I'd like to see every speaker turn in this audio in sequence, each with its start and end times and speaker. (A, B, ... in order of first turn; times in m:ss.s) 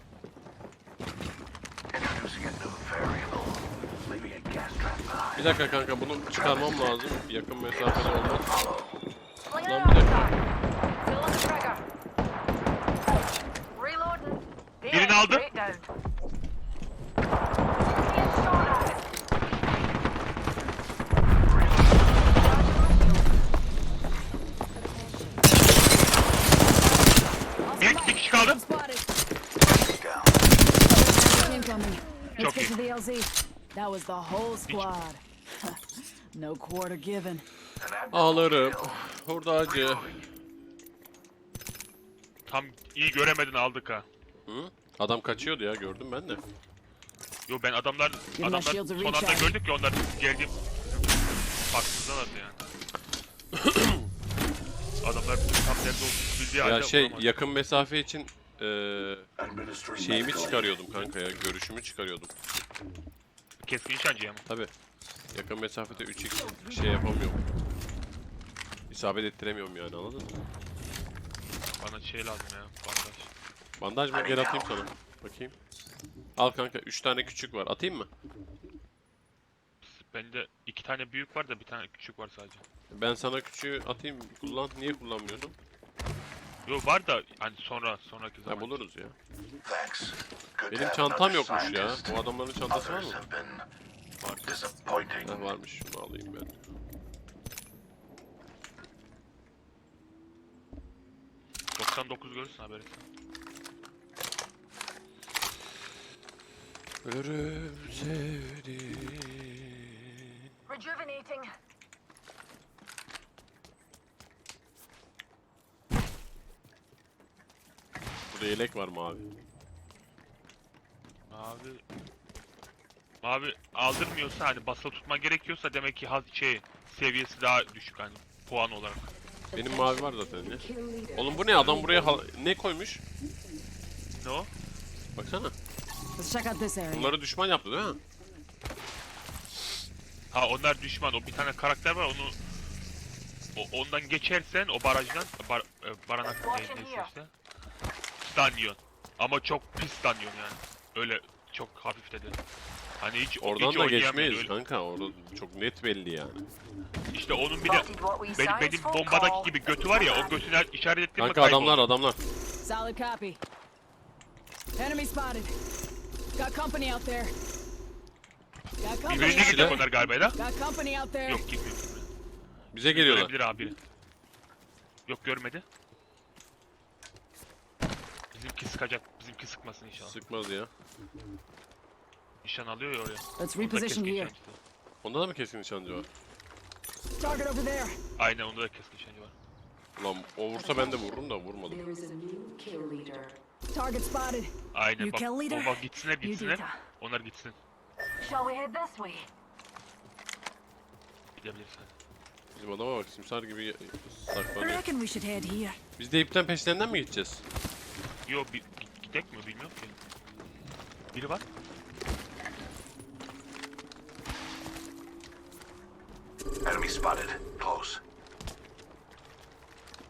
0:01.9-0:05.6 A
0:05.4-0:08.5 B
0:06.3-0:07.1 A
0:07.7-0:09.0 A
0:09.5-0:10.4 C
0:09.6-0:10.3 B
0:11.0-0:11.8 C
0:13.8-0:15.9 C
0:14.9-0:15.5 D
0:17.8-0:19.0 C
0:21.4-0:22.2 A
0:22.2-0:23.4 C
0:27.6-0:29.1 E
0:27.8-0:28.6 D
0:29.7-0:30.4 A
0:30.8-0:35.8 E
0:32.4-0:32.7 D
0:36.3-0:37.4 E
0:37.8-0:39.0 A
0:38.1-0:40.1 B
0:39.6-0:40.3 A
0:42.5-0:44.1 D
0:44.5-0:46.4 B
0:47.5-0:51.1 D
0:48.4-0:49.6 E
0:51.7-0:52.6 D
0:53.5-0:54.1 B
0:55.0-0:57.3 D
0:56.6-0:59.3 B
0:59.4-1:00.8 A
1:00.0-1:02.3 B
1:03.6-1:04.4 D
1:05.3-1:07.4 B
1:08.9-1:10.3 B
1:11.7-1:13.3 D
1:13.8-1:15.5 B
1:14.1-1:14.9 A
1:16.4-1:18.1 B
1:19.8-1:22.6 D
1:22.9-1:25.6 B
1:26.7-1:28.8 D
1:28.5-1:29.2 B
1:29.6-1:33.6 A
1:30.7-1:33.2 B
1:34.2-1:34.6 D
1:34.4-1:35.5 A
1:35.2-1:36.6 B
1:41.8-1:43.0 D
1:47.0-1:50.5 B
1:50.7-1:51.5 C
1:58.3-1:59.2 B
2:01.3-2:01.8 D
2:03.2-2:09.1 D
2:09.5-2:13.0 B
2:09.6-2:12.1 F
2:14.2-2:14.5 D
2:15.2-2:15.5 B
2:16.2-2:17.2 E
2:16.9-2:18.0 B
2:20.3-2:22.4 D
2:23.6-2:27.3 D
2:26.4-2:27.1 C
2:28.2-2:32.4 D
2:33.0-2:34.5 D
2:33.4-2:36.4 B
2:37.1-2:41.9 D
2:37.6-2:40.4 C
2:41.2-2:42.2 B
2:42.6-2:43.4 E
2:44.8-2:45.5 E
2:46.4-2:47.3 E
2:48.8-2:51.4 E
2:49.1-2:50.4 D
2:49.1-2:49.8 B
2:51.3-2:52.1 D
2:52.7-2:53.3 B
2:52.9-2:53.8 D
2:55.1-2:55.6 D
2:58.3-3:00.2 D
3:00.0-3:00.7 B
3:02.4-3:04.6 D
3:03.4-3:04.3 E
3:05.0-3:06.1 B
3:07.2-3:08.0 E
3:08.2-3:09.3 D
3:10.0-3:11.9 B
3:11.7-3:13.3 F
3:12.1-3:13.0 C
3:13.7-3:16.8 E
3:14.7-3:17.6 D
3:18.2-3:19.2 C
3:21.4-3:21.9 D
3:22.6-3:24.9 B
3:24.6-3:25.8 E
3:26.0-3:27.4 B
3:28.3-3:30.0 D
3:31.1-3:31.4 D
3:36.6-3:38.0 A